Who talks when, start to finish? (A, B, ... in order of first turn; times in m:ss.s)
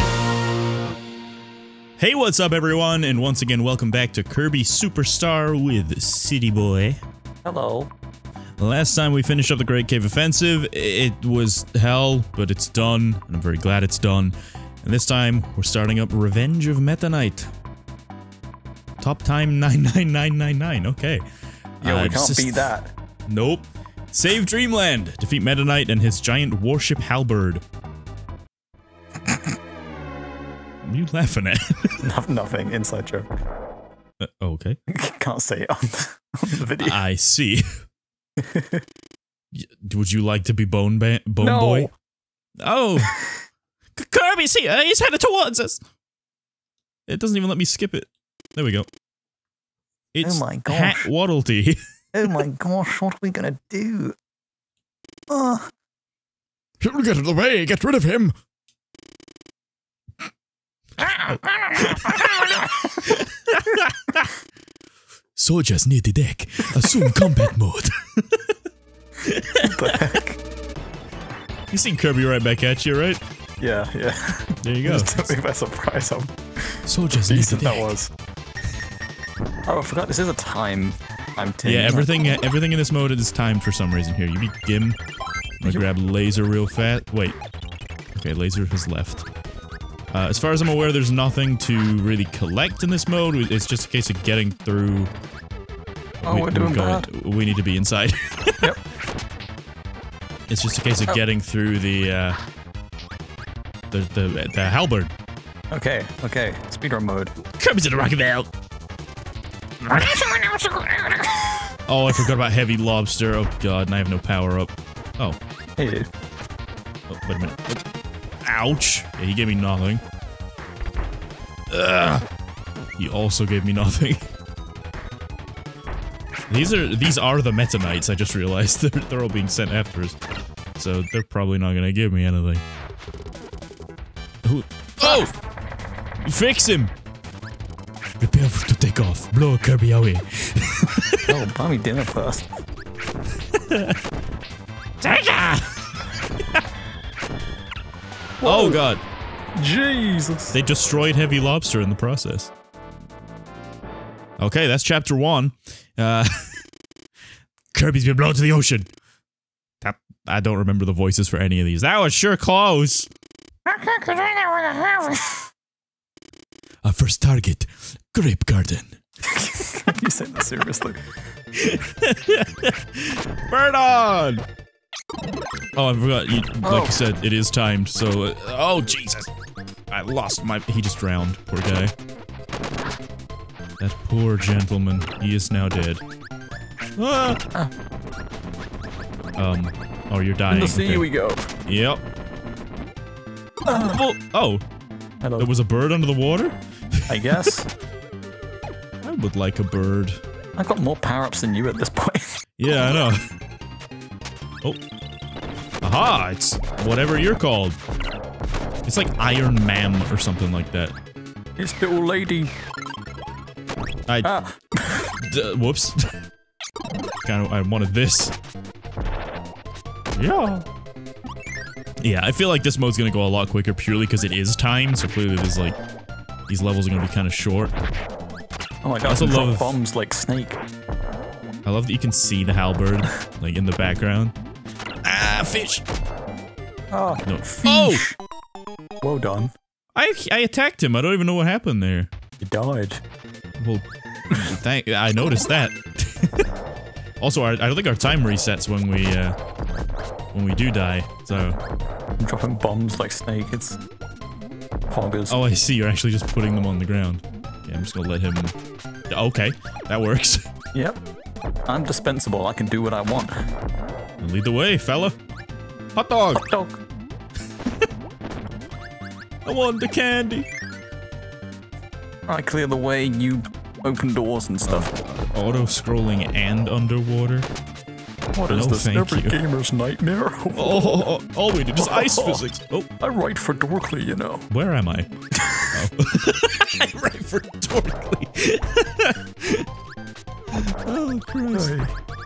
0:02.0-0:07.0 A
0:07.4-0:07.9 B
0:08.6-0:17.5 A
0:19.0-0:21.2 A
0:21.8-0:22.7 A
0:21.8-0:22.9 B
0:23.3-0:27.6 A
0:30.8-0:32.0 A
0:32.0-0:33.3 B
0:34.2-0:34.8 A
0:34.9-0:37.0 B
0:36.8-0:37.8 A
0:38.4-0:38.8 B
0:39.5-0:41.9 A
0:41.4-0:41.9 B
0:42.6-0:43.2 A
0:43.1-0:43.3 B
0:44.0-0:45.8 A
0:47.1-0:48.9 A
0:50.1-0:51.8 A
0:50.2-0:51.1 B
0:52.1-0:54.2 B
0:55.3-0:55.7 B
0:56.8-0:58.4 A
1:01.1-1:03.1 B
1:01.3-1:02.5 A
1:03.0-1:04.3 A
1:05.4-1:08.6 A
1:06.7-1:07.5 B
1:09.2-1:10.0 A
1:09.6-1:10.4 B
1:11.7-1:13.2 A
1:13.6-1:18.1 B
1:14.6-1:15.3 A
1:16.9-1:17.9 A
1:19.7-1:22.1 B
1:21.6-1:25.0 A
1:25.6-1:27.4 A
1:28.2-1:29.3 A
1:30.1-1:35.1 A
1:36.2-1:38.7 A
1:36.2-1:37.1 B
1:40.5-1:42.4 A
1:43.9-1:45.1 A
1:45.7-1:47.3 B
1:47.4-1:48.5 A
1:49.9-1:51.7 B
1:51.9-1:55.4 A
1:55.8-1:56.1 B
1:57.1-1:57.8 A
1:58.4-2:00.0 A
2:01.7-2:02.3 A
2:03.0-2:04.3 A
2:06.5-2:10.2 A
2:10.8-2:12.6 A
2:14.4-2:15.3 A
2:15.0-2:15.3 B
2:16.2-2:16.9 A
2:18.2-2:21.3 A
2:21.3-2:22.5 B
2:23.5-2:24.0 A
2:25.0-2:25.8 A
2:28.4-2:28.8 B
2:28.4-2:29.0 A
2:29.6-2:30.6 B
2:30.5-2:32.5 A
2:34.4-2:36.6 A
2:37.7-2:38.9 A
2:39.8-2:43.1 A
2:43.7-2:45.4 B
2:46.8-2:49.0 A
2:49.2-2:51.0 B
2:51.5-2:54.4 A
2:55.8-2:59.3 A
2:56.6-2:57.0 B
2:59.9-3:01.9 A
3:03.8-3:06.0 A
3:07.0-3:07.4 A
3:09.4-3:11.1 A
3:10.5-3:11.5 B
3:11.6-3:12.0 A
3:13.7-3:14.0 B
3:13.7-3:14.6 A
3:15.2-3:15.5 B
3:15.4-3:16.6 A
3:17.1-3:17.7 B
3:19.0-3:20.2 A
3:20.6-3:22.3 B
3:22.6-3:23.2 A
3:25.8-3:27.8 A
3:28.9-3:31.0 A
3:31.6-3:32.5 B
3:34.2-3:35.1 B
3:35.2-3:36.1 A
3:37.2-3:38.4 A
3:40.2-3:40.7 A
3:42.0-3:45.8 A
3:46.5-3:47.7 A
3:48.8-3:50.6 B
3:49.1-3:49.8 A
3:51.6-3:54.4 A
3:55.0-3:55.8 A
3:56.9-3:58.2 B
3:57.2-3:58.0 A
3:59.0-3:59.5 B
4:00.0-4:02.1 A
4:02.4-4:03.0 B
4:03.6-4:06.5 A
4:07.2-4:09.4 A
4:10.3-4:11.6 A
4:12.2-4:13.8 B
4:14.9-4:15.4 B
4:15.3-4:18.6 A
4:19.1-4:20.5 A
4:20.7-4:21.0 B
4:21.7-4:23.4 B
4:24.2-4:25.2 A
4:26.0-4:26.4 A
4:26.4-4:26.8 B
4:29.4-4:30.5 A
4:32.3-4:34.9 B
4:34.7-4:37.5 A
4:38.4-4:41.0 B
4:38.5-4:39.4 A
4:40.5-4:42.9 A
4:41.8-4:42.4 B
4:43.0-4:44.5 B
4:44.5-4:45.1 A
4:45.3-4:45.9 B
4:45.7-4:49.7 A
4:50.5-4:51.8 A
4:51.5-4:51.9 B